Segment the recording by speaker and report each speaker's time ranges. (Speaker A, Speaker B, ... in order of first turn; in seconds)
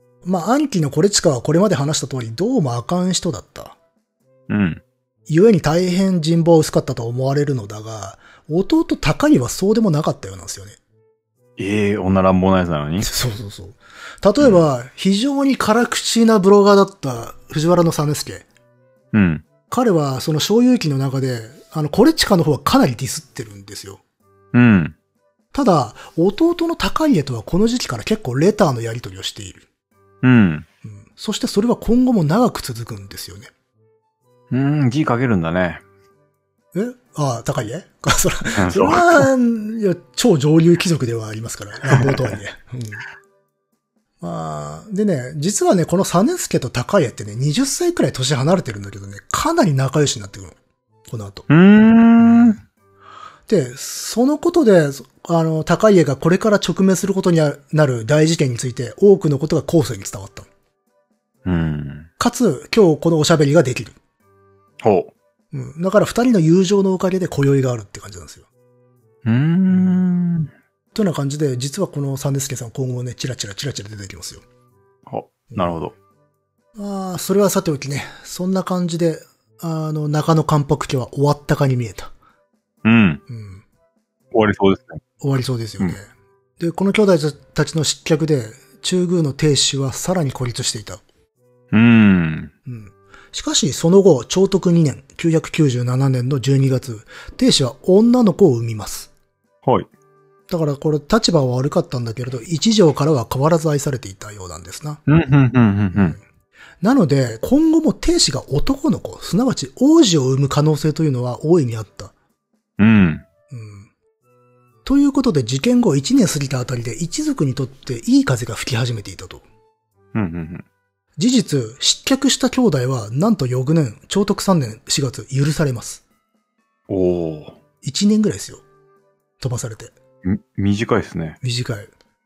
Speaker A: 0.2-3.8, 5.3-10.8, 13.0-18.4, 19.7-24.0, 25.5-29.6, 30.8-33.5, 36.7-43.0, 44.2-50.5, 51.1-51.5, 53.5-60.5, 62.2-64.0, 65.5-68.5, 70.9-74.4, 75.5-75.8, 76.8-82.1, 83.3-83.6, 85.2-86.1, 86.6-91.0, 92.7-99.1, 100.5-105.0, 105.9-106.2, 106.8-112.1, 113.5-113.9, 114.8-119.4, 121.2-126.0, 127.8-128.6, 129.4-129.9, 131.4-131.9
Speaker B: 4.5-4.8, 11.6-13.1, 19.1-19.4, 24.5-24.9, 30.2-30.6, 34.5-35.8, 38.5-39.3, 41.9-42.4, 51.5-52.6, 61.4-62.1, 64.8-65.1, 69.2-70.5, 75.1-75.9, 82.8-83.2, 84.3-85.0, 91.7-92.5, 105.1-106.2, 112.8-113.2, 120.1-120.6, 126.9-127.6, 130.2-131.4